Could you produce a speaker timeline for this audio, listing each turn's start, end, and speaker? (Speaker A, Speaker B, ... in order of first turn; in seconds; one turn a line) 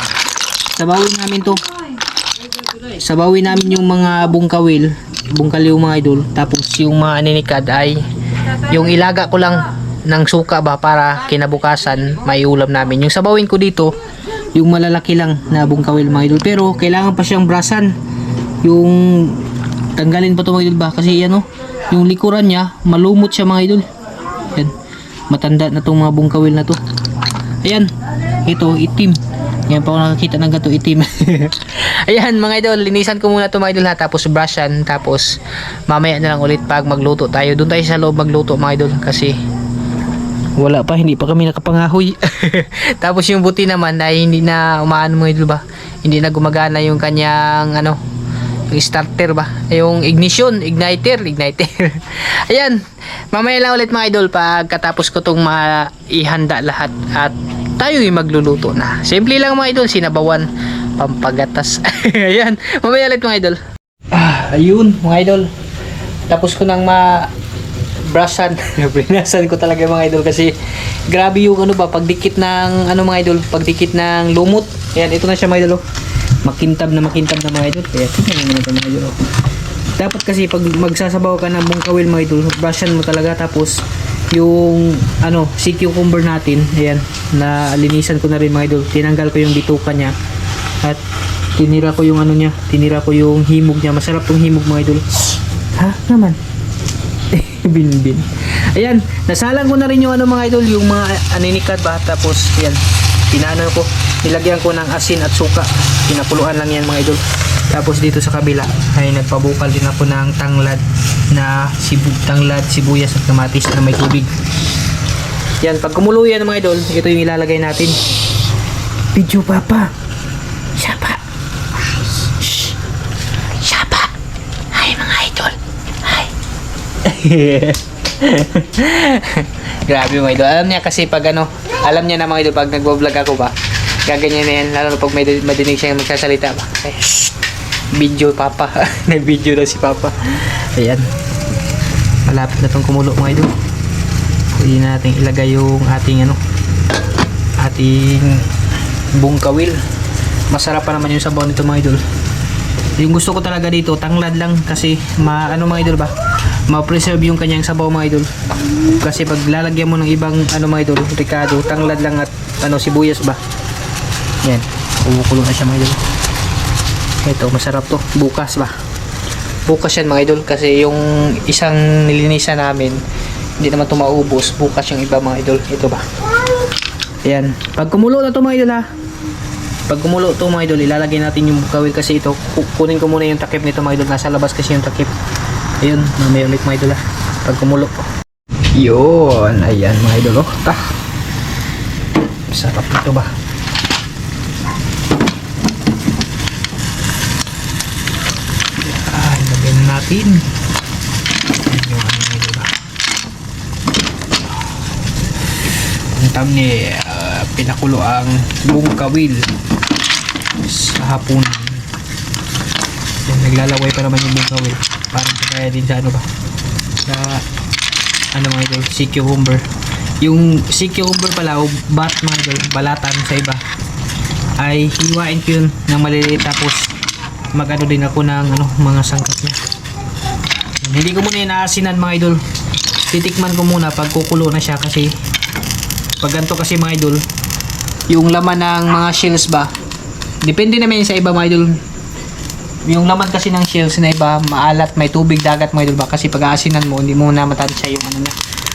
Speaker A: 0.8-1.6
Speaker A: 2.9-8.0
Speaker A: 8.7-13.9
Speaker A: 14.5-17.9
Speaker A: 18.6-19.4
Speaker A: 19.9-23.9
Speaker A: 25.3-26.8
Speaker A: 27.6-27.9
Speaker A: 28.4-35.4
Speaker A: 35.9-39.4
Speaker A: 40.6-48.0
Speaker A: 48.7-52.8
Speaker A: 53.3-63.6
Speaker A: 64.1-65.5
Speaker A: 66.3-67.3
Speaker A: 68.1-70.5
Speaker A: 71.1-75.8
Speaker A: 76.5-79.2
Speaker A: 80.0-83.8
Speaker A: 84.3-90.1
Speaker A: 91.6-95.2
Speaker A: 95.8-96.4
Speaker A: 97.3-114.3
Speaker A: 115.6-118.0
Speaker A: 119.1-119.9
Speaker A: 120.8-121.2
Speaker A: 122.4-122.7
Speaker A: 123.6-124.1
Speaker A: 124.7-126.3
Speaker A: 127.0-133.5
Speaker A: 134.1-137.3
Speaker A: 137.9-141.0
Speaker A: 142.2-143.5
Speaker A: 144.6-146.4
Speaker A: 147.6-148.4
Speaker A: 149.1-149.8
Speaker A: 150.5-152.0
Speaker A: 153.0-156.1
Speaker A: 156.7-163.4
Speaker A: 164.4-166.0
Speaker A: 167.2-168.7
Speaker A: 169.7-173.0
Speaker A: 173.6-176.0
Speaker A: 177.2-178.8
Speaker A: 179.9-185.1
Speaker A: 185.8-188.0
Speaker A: 188.8-190.8
Speaker A: 192.5-193.3
Speaker A: 198.8-200.4
Speaker A: 201.6-202.7
Speaker A: 206.1-209.5
Speaker A: 210.6-211.8
Speaker A: 213.2-216.2
Speaker A: 217.1-217.4
Speaker A: 218.3-219.6
Speaker A: 220.2-223.6
Speaker A: 224.6-226.9
Speaker A: 227.5-229.6
Speaker A: 230.8-232.4
Speaker A: 233.1-235.1
Speaker A: 236.2-237.2
Speaker A: 238.1-239.7
Speaker A: 240.4-241.8
Speaker A: 242.9-248.4